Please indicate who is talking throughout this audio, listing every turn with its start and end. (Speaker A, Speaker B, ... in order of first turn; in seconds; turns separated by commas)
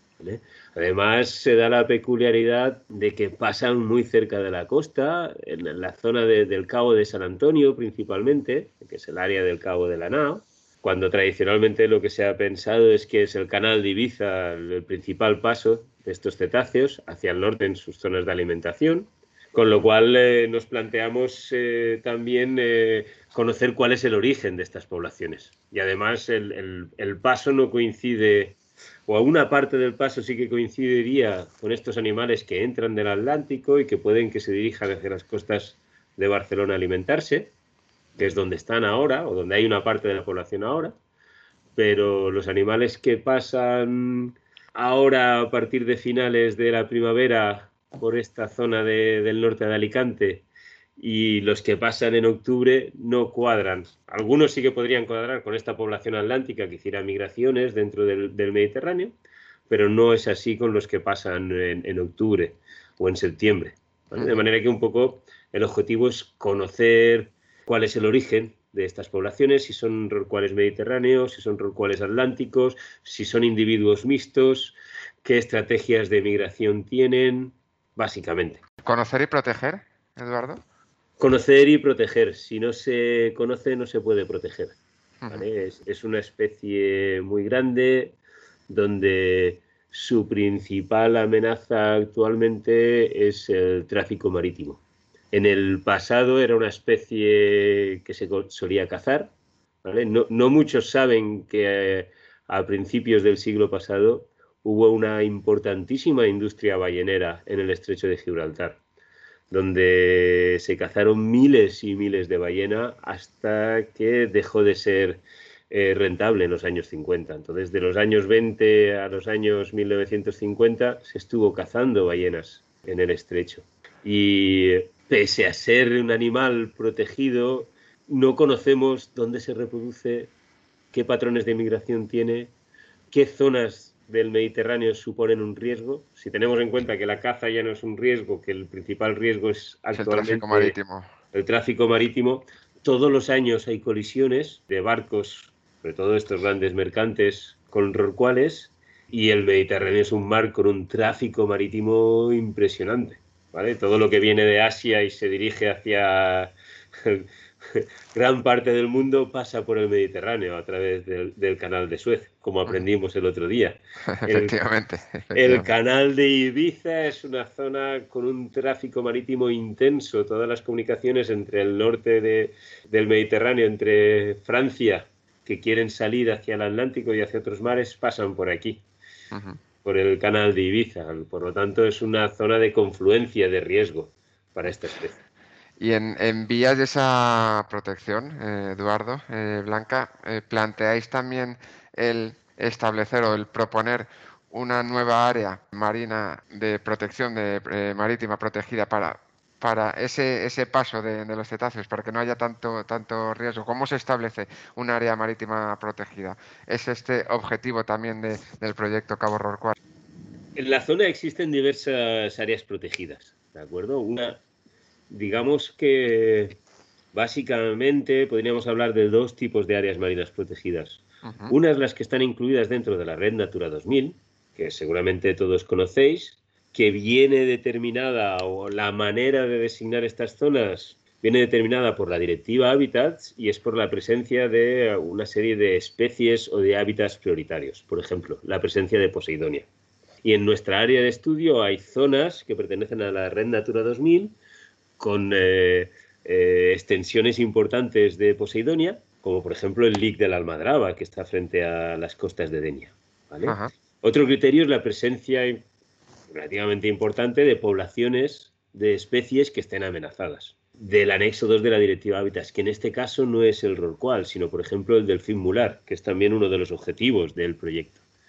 Speaker A: 0.2-37.5, Speaker A: 38.2-41.0, Speaker A: 41.8-50.4, Speaker A: 51.0-59.1, Speaker A: 59.7-78.6, Speaker B: 78.8-80.6, Speaker A: 81.2-84.8, Speaker A: 85.3-88.2, Speaker A: 88.7-99.3, Speaker A: 99.8-108.8, Speaker A: 109.5-130.3, Speaker A: 130.9-132.5, Speaker A: 133.1-140.8, Speaker B: 139.9-141.1, Speaker A: 141.3-164.6, Speaker B: 164.1-165.7, Speaker A: 165.3-178.8, Speaker B: 179.3-179.6, Speaker A: 179.8-185.2, Speaker B: 185.8-209.8, Speaker A: 210.6-214.4, Speaker A: 215.1-216.6, Speaker A: 217.1-239.7, Speaker B: 221.2-221.5, Speaker A: 240.2-244.3, Speaker A: 245.0-255.6, Speaker B: 253.4-253.7, Speaker A: 256.3-268.0